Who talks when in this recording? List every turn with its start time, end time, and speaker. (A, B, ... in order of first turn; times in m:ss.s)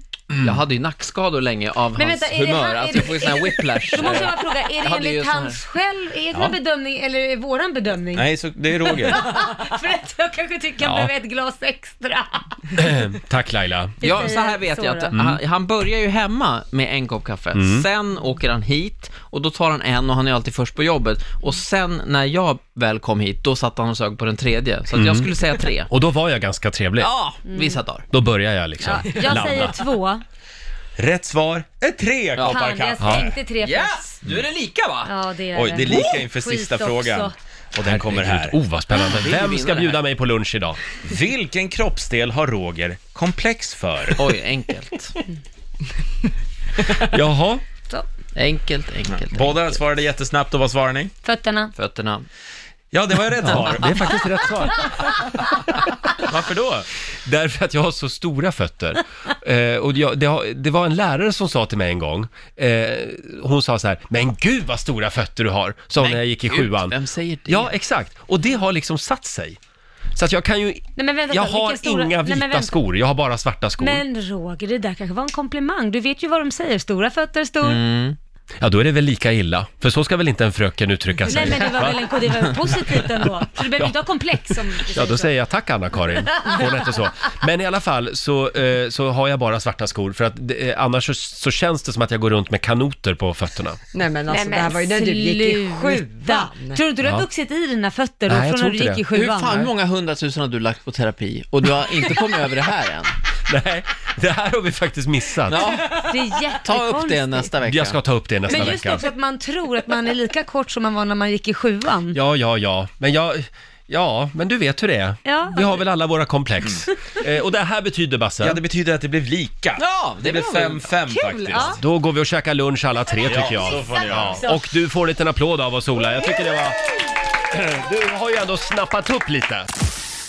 0:00.4-0:05.6 A
0:02.0-0:12.9 B
0:08.1-0:09.2 C
0:10.8-0:11.1 D
0:12.8-0:14.0 D
0:14.0-0:15.1 B
0:14.0-0:25.9 A
0:15.1-0:15.4 D
0:17.5-0:17.8 D
0:24.9-0:25.3 D
0:25.8-0:27.1 D
0:27.0-0:28.1 A
0:27.5-0:27.8 B
0:28.1-0:29.7 D
0:28.8-0:30.2 B
0:29.2-0:29.7 C
0:31.0-0:33.3 C
0:32.4-0:34.2 B
0:33.0-0:33.3 D
0:33.6-0:35.1 A
0:35.0-0:37.3 B
0:35.5-0:38.6 C
0:35.9-0:36.2 A
0:37.8-0:40.8 D
0:38.9-0:40.0 A
0:41.0-0:44.2 C
0:44.1-0:45.2 A
0:46.9-0:47.6 D
0:48.3-0:49.8 A
0:49.1-0:51.1 C
0:51.2-0:51.7 B
0:51.7-0:52.2 A
0:52.9-0:54.0 C
0:53.4-0:55.3 D
0:53.4-0:53.8 A
0:56.2-0:56.9 C
0:57.2-1:07.0 D
1:06.0-1:07.7 A
1:07.5-1:09.6 D
1:10.1-1:14.0 D
1:11.0-1:12.8 B
1:13.8-1:17.8 B
1:17.6-1:18.2 A
1:18.6-1:22.5 D
1:21.3-1:25.3 B
1:24.8-1:33.8 D
1:26.3-1:26.8 B
1:33.9-1:36.8 E
1:34.3-1:39.7 B
1:38.3-1:39.0 D
1:39.1-1:43.2 A
1:43.4-1:45.8 D
1:45.5-1:45.9 A
1:45.6-1:47.5 B
1:46.6-1:48.7 A
1:47.6-1:49.0 D
1:48.5-1:52.2 B
1:52.1-1:58.6 D
1:55.2-1:55.8 B
1:58.4-2:01.8 C
1:59.8-2:01.0 A
2:01.1-2:01.6 E
2:01.5-2:01.8 B
2:01.6-2:06.8 D
2:03.2-2:04.4 C
2:03.6-2:04.6 B
2:07.5-2:09.7 D